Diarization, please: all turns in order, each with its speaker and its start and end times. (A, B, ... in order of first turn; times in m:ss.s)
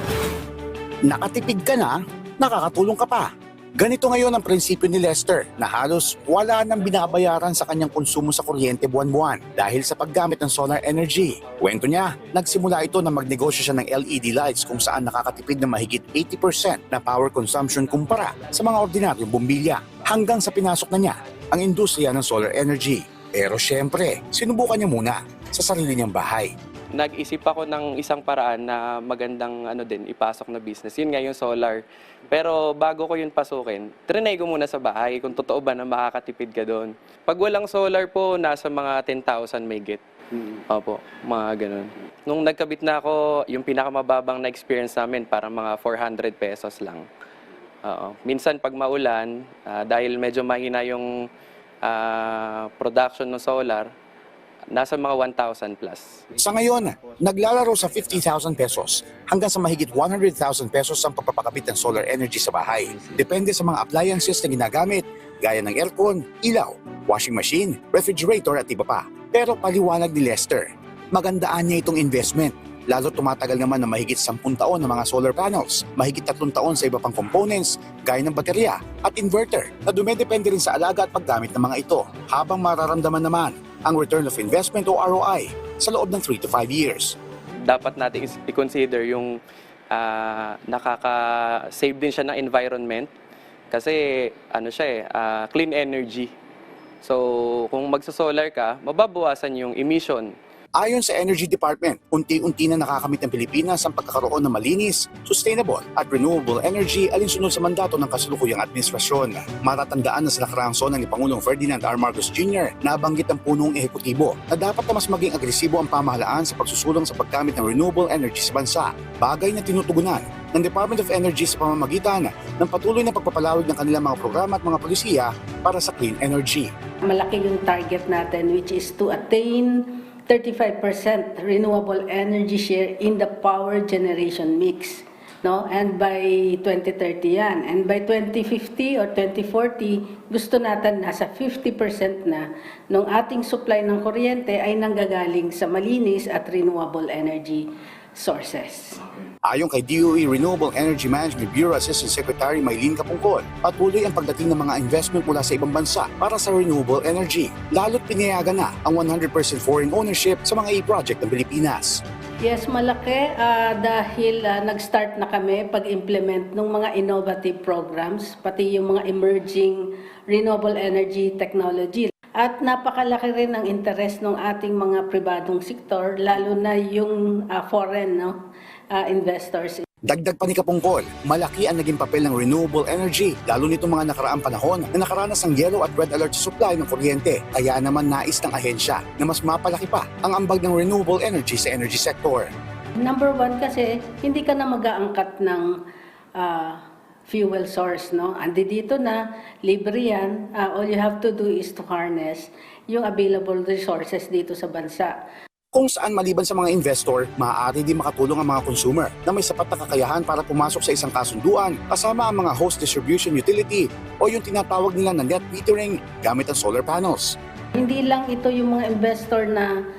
0:01.1-0:26.5 A
0:26.9-0:47.0 B
0:47.8-0:51.2 B
0:51.8-0:53.9 B
0:54.7-0:56.2 B
0:56.4-1:27.1 A
1:27.6-1:29.4 B
1:29.9-1:33.1 B
1:33.7-1:36.3 B
1:37.0-1:40.3 B
1:40.8-2:06.7 A
2:07.0-2:29.0 C
2:29.4-2:42.0 A
2:42.4-2:58.4 C
2:58.9-2:59.8 C
3:00.0-3:12.5 A
3:13.0-3:15.8 C
3:16.4-3:25.1 C
3:25.7-3:37.4 A
3:37.7-3:39.7 C